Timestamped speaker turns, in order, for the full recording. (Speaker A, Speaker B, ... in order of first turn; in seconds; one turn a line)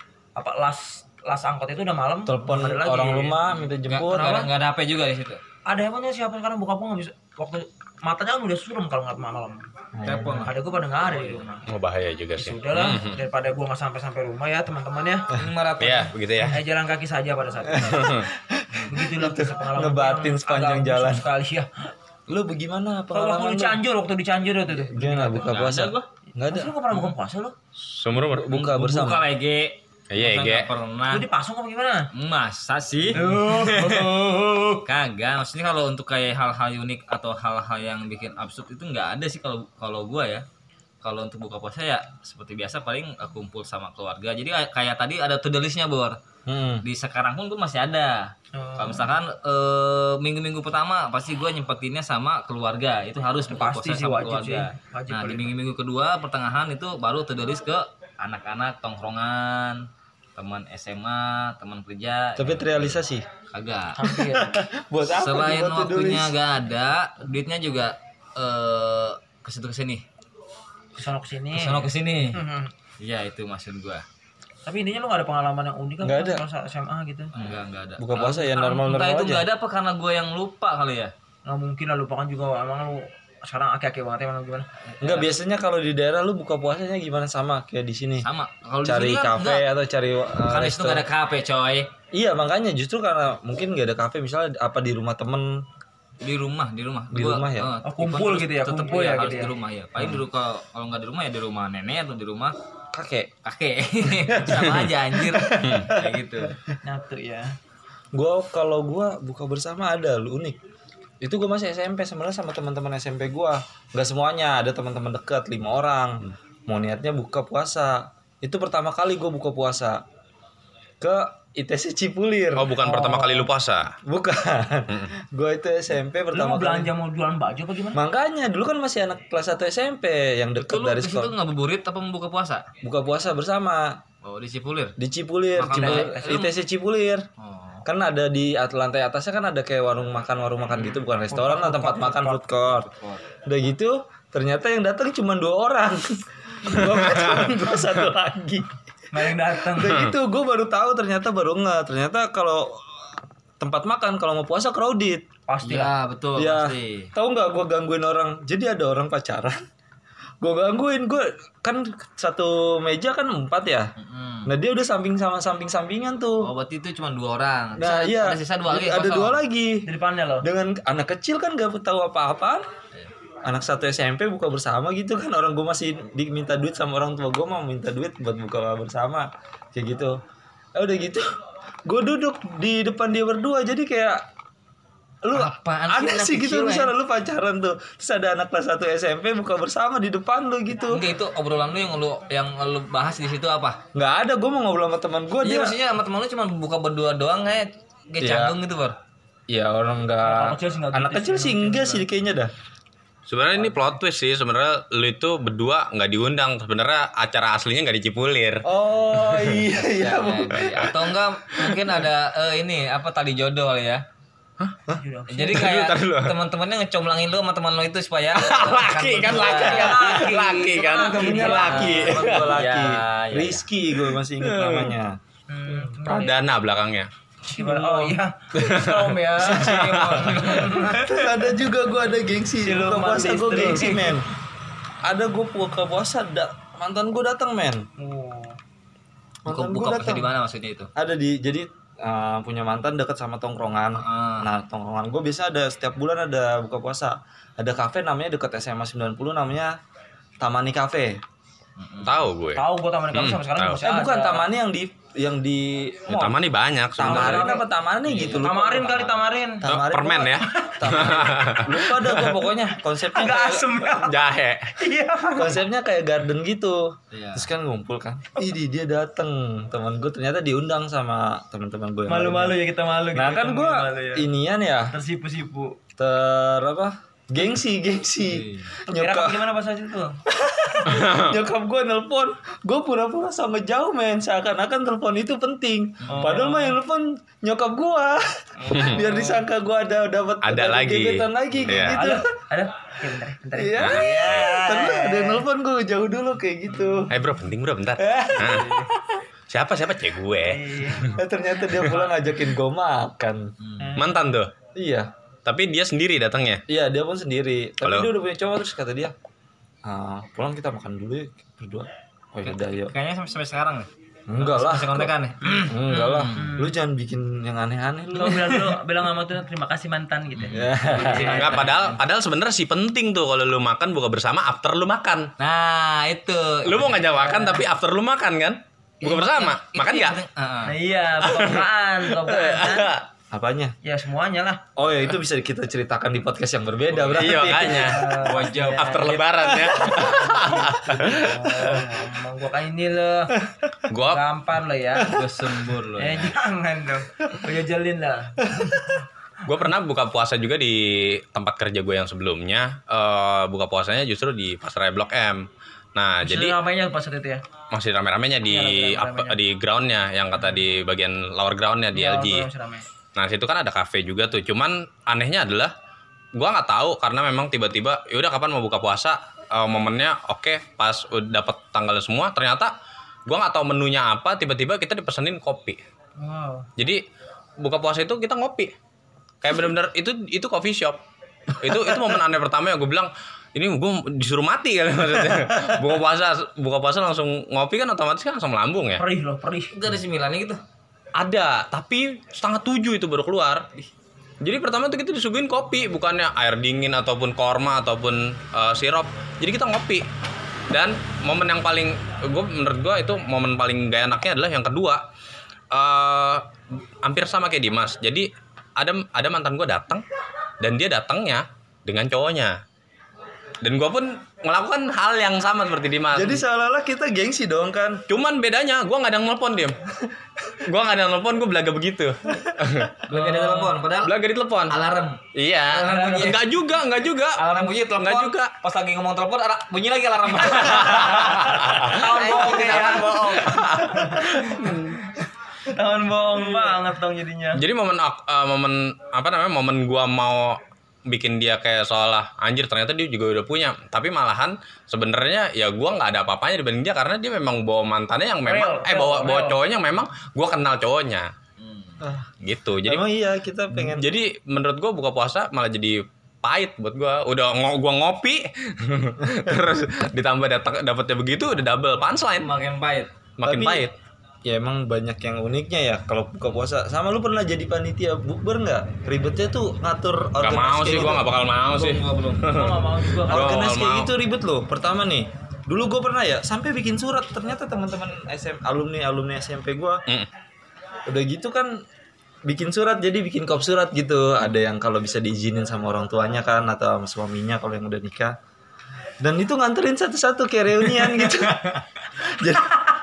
Speaker A: 0.3-3.4
Speaker B: 2.2-4.5
Speaker C: 3.8-5.4
Speaker A: 4.1-4.5
Speaker A: 5.7-9.7
Speaker B: 9.9-10.5
Speaker C: 10.0-10.5
Speaker A: 10.3-11.7
Speaker C: 11.1-11.4
Speaker D: 11.7-13.2
Speaker A: 12.4-15.3
Speaker C: 15.3-16.1
Speaker D: 15.8-16.6
Speaker A: 16.5-18.2
Speaker B: 17.7-21.2
Speaker D: 17.9-18.3
Speaker A: 18.9-21.9
Speaker B: 22.3-23.8
Speaker A: 23.1-25.5
Speaker B: 24.7-26.7
Speaker C: 25.3-26.1
Speaker A: 26.4-27.6
Speaker D: 27.8-28.5
Speaker B: 28.2-29.2
Speaker C: 28.5-31.2
Speaker D: 30.1-30.7
Speaker A: 31.1-32.1
Speaker C: 32.1-34.1
Speaker A: 33.1-34.8
Speaker C: 34.8-40.4
Speaker C: 41.0-46.2
Speaker B: 46.5-46.8
Speaker C: 46.8-63.0
Speaker A: 48.5-49.1
Speaker A: 53.5-55.5
Speaker B: 62.4-63.2
Speaker C: 63.5-64.0
Speaker A: 64.0-64.6
Speaker B: 64.0-66.3
Speaker C: 65.1-70.0
Speaker A: 70.9-72.7
Speaker C: 71.5-72.4
Speaker C: 73.0-74.0
Speaker A: 74.6-77.3
Speaker B: 76.0-76.4
Speaker C: 77.3-81.1
Speaker B: 78.0-79.5
Speaker A: 81.4-84.7
Speaker C: 84.9-85.3
Speaker B: 85.0-88.3
Speaker C: 88.2-89.7
Speaker B: 88.8-91.0
Speaker C: 90.5-91.9
Speaker B: 92.1-95.6
Speaker C: 96.2-102.5
Speaker B: 97.1-97.7
Speaker A: 97.8-99.5
Speaker B: 102.9-103.3
Speaker C: 103.4-106.6
Speaker B: 104.2-106.2
Speaker A: 106.8-107.5
Speaker B: 108.1-110.6
Speaker B: 111.2-120.0
Speaker B: 121.0-122.9
Speaker D: 122.5-124.0
Speaker A: 122.8-123.5
Speaker B: 124.0-126.9
Speaker A: 126.3-128.0
Speaker B: 127.9-131.3
Speaker C: 130.6-132.7
Speaker B: 132.8-134.0
Speaker C: 134.2-134.9
Speaker B: 135.0-137.3
Speaker C: 135.5-136.5
Speaker A: 135.7-136.5
Speaker C: 137.4-137.8
Speaker B: 137.8-142.9
Speaker A: 141.3-142.5
Speaker C: 142.6-143.2
Speaker B: 143.4-148.7
Speaker D: 146.8-147.5
Speaker A: 149.1-150.0
Speaker B: 149.6-152.8
Speaker D: 149.8-150.1
Speaker B: 153.6-155.2
Speaker A: 155.5-155.9
Speaker C: 155.6-157.1
Speaker B: 156.3-159.6
Speaker B: 160.4-163.9
Speaker C: 164.0-164.5
Speaker B: 164.4-166.5
Speaker C: 166.4-169.4
Speaker B: 167.8-172.6
Speaker A: 169.8-170.4
Speaker B: 173.4-180.2
Speaker B: 180.7-181.3
Speaker B: 181.8-184.2
Speaker B: 185.2-191.0
Speaker C: 185.3-186.9
Speaker C: 190.8-193.8
Speaker B: 193.9-195.8
Speaker C: 195.4-199.0
Speaker B: 198.2-198.6
Speaker B: 199.5-202.5
Speaker A: 200.2-202.0
Speaker D: 203.3-208.7
Speaker B: 208.6-210.9
Speaker D: 209.2-209.6
Speaker C: 209.9-214.0
Speaker A: 214.9-215.8
Speaker C: 215.3-220.3
Speaker D: 215.5-216.3
Speaker D: 218.3-222.6
Speaker A: 219.4-222.1
Speaker B: 220.8-225.2
Speaker C: 221.4-223.6
Speaker D: 224.4-224.9
Speaker A: 225.5-226.4
Speaker D: 226.0-227.1
Speaker A: 227.5-231.4
Speaker B: 227.5-228.2
Speaker D: 228.5-230.6
Speaker B: 229.4-229.7
Speaker C: 229.6-230.9
Speaker B: 230.7-234.3
Speaker A: 232.6-234.2
Speaker B: 235.0-237.9
Speaker A: 238.0-238.6
Speaker B: 239.4-240.3
Speaker C: 239.5-240.9
Speaker B: 240.9-249.8
Speaker C: 243.9-244.5
Speaker B: 250.4-251.2
Speaker C: 251.8-252.3
Speaker D: 252.0-253.8
Speaker A: 252.6-254.5
Speaker B: 253.8-256.4
Speaker D: 256.1-257.5
Speaker B: 257.0-259.0
Speaker A: 257.0-257.6
Speaker C: 258.0-259.2
Speaker A: 258.3-259.6
Speaker B: 259.6-263.8
Speaker D: 259.6-262.3
Speaker A: 260.5-261.1
Speaker A: 263.0-264.2
Speaker D: 263.9-264.8
Speaker A: 264.8-265.6
Speaker B: 265.3-274.9
Speaker C: 267.1-267.5
Speaker A: 272.1-274.2
Speaker A: 274.9-275.8
Speaker B: 276.0-279.4
Speaker C: 278.2-278.7
Speaker A: 278.9-280.2
Speaker B: 280.3-292.3
Speaker A: 280.7-281.0
Speaker D: 280.9-281.4
Speaker C: 286.0-286.4
Speaker A: 286.1-286.8
Speaker A: 288.6-289.4
Speaker D: 288.7-289.0
Speaker D: 290.4-292.0
Speaker A: 291.7-295.4
Speaker B: 293.5-297.1
Speaker D: 293.8-294.4
Speaker A: 296.7-297.1
Speaker D: 297.1-298.7
Speaker B: 298.0-298.8
Speaker A: 298.4-298.9
Speaker D: 299.5-301.1
Speaker A: 300.4-301.2
Speaker B: 301.1-303.5
Speaker A: 301.8-302.1
Speaker C: 303.6-304.0
Speaker A: 303.8-304.2
Speaker D: 303.9-304.5
Speaker B: 304.7-305.1
Speaker D: 305.4-306.6
Speaker B: 306.7-309.1
Speaker D: 307.8-308.1
Speaker B: 309.8-312.9
Speaker C: 312.4-316.5
Speaker B: 314.3-318.7
Speaker A: 315.4-316.7
Speaker A: 318.1-321.9
Speaker C: 320.4-322.0
Speaker B: 320.5-321.4
Speaker D: 321.2-325.3
Speaker C: 325.4-327.1
Speaker D: 326.6-330.2
Speaker A: 327.1-327.6
Speaker A: 329.0-329.6
Speaker C: 329.4-330.8
Speaker A: 330.6-332.9
Speaker D: 331.2-333.0
Speaker B: 333.3-333.8
Speaker A: 333.8-334.6
Speaker B: 334.8-337.9
Speaker C: 336.9-339.3
Speaker D: 337.1-341.8
Speaker A: 337.6-343.4
Speaker D: 343.9-344.2
Speaker A: 344.0-345.2
Speaker C: 345.0-346.4
Speaker A: 346.0-349.0
Speaker D: 349.4-356.6
Speaker A: 356.2-357.4
Speaker D: 357.7-362.5
Speaker A: 358.4-359.4
Speaker A: 361.9-362.9
Speaker D: 363.1-365.7
Speaker D: 366.3-372.7
Speaker D: 373.3-375.8
Speaker A: 376.2-376.7
Speaker D: 376.8-377.0
Speaker D: 377.6-378.7
Speaker D: 379.4-389.0
Speaker A: 389.0-389.7
Speaker C: 389.7-390.6
Speaker D: 391.1-393.6
Speaker D: 394.4-400.1
Speaker D: 400.7-405.0
Speaker D: 405.7-406.5
Speaker D: 407.0-410.0
Speaker D: 410.6-412.6
Speaker D: 413.6-416.4
Speaker B: 416.1-418.0
Speaker D: 418.1-419.8
Speaker D: 420.5-424.7
Speaker C: 423.1-424.1
Speaker C: 424.7-426.5
Speaker D: 425.3-428.5
Speaker C: 427.3-433.8
Speaker D: 430.6-435.0
Speaker A: 431.7-434.8
Speaker A: 435.6-437.6
Speaker D: 437.5-451.3
Speaker A: 448.4-449.6
Speaker C: 451.6-452.0
Speaker B: 452.0-452.3
Speaker D: 452.4-453.0
Speaker B: 452.8-454.1
Speaker D: 453.7-462.5
Speaker C: 462.3-463.1
Speaker D: 463.4-463.9
Speaker B: 463.4-463.9
Speaker B: 464.4-471.3
Speaker D: 470.4-474.1
Speaker C: 471.7-472.5
Speaker A: 472.4-473.7
Speaker B: 473.3-480.0
Speaker B: 481.1-481.8
Speaker B: 482.4-488.4
Speaker B: 489.2-492.8
Speaker C: 491.2-491.8